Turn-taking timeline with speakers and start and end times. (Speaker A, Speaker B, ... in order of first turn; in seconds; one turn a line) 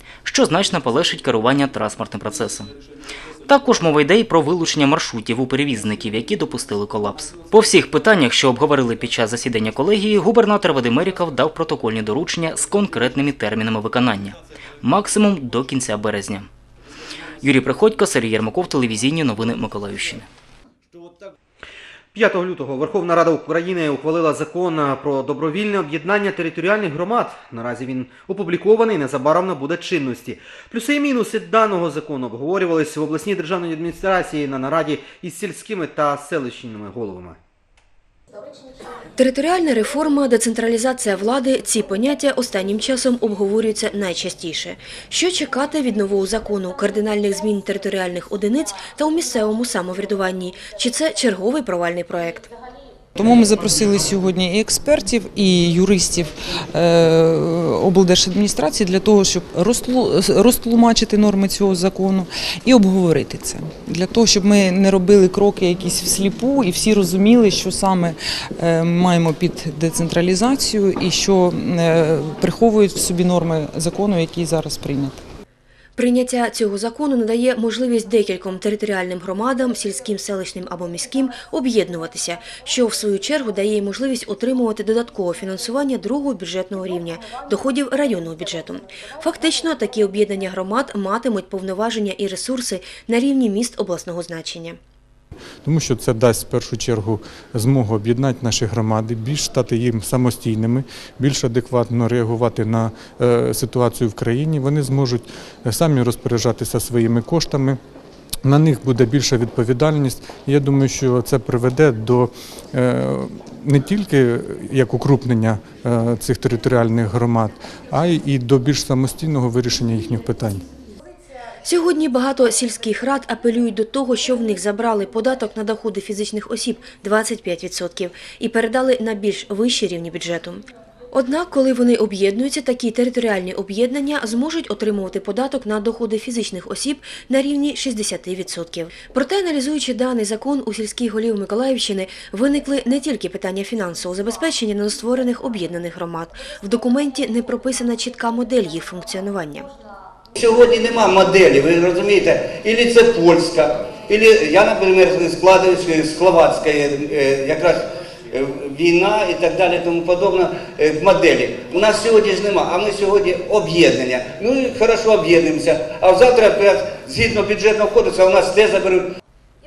Speaker A: 0.2-2.7
Speaker A: 3.5-16.5
Speaker A: 17.4-20.3
Speaker B: 22.1-37.4
Speaker C: 39.1-52.5
Speaker D: 53.1-75.2
Speaker C: 76.0-94.8
Speaker E: 95.6-107.8
Speaker E: 108.4-120.6
Speaker C: 121.6-149.7
Speaker F: 150.4-169.1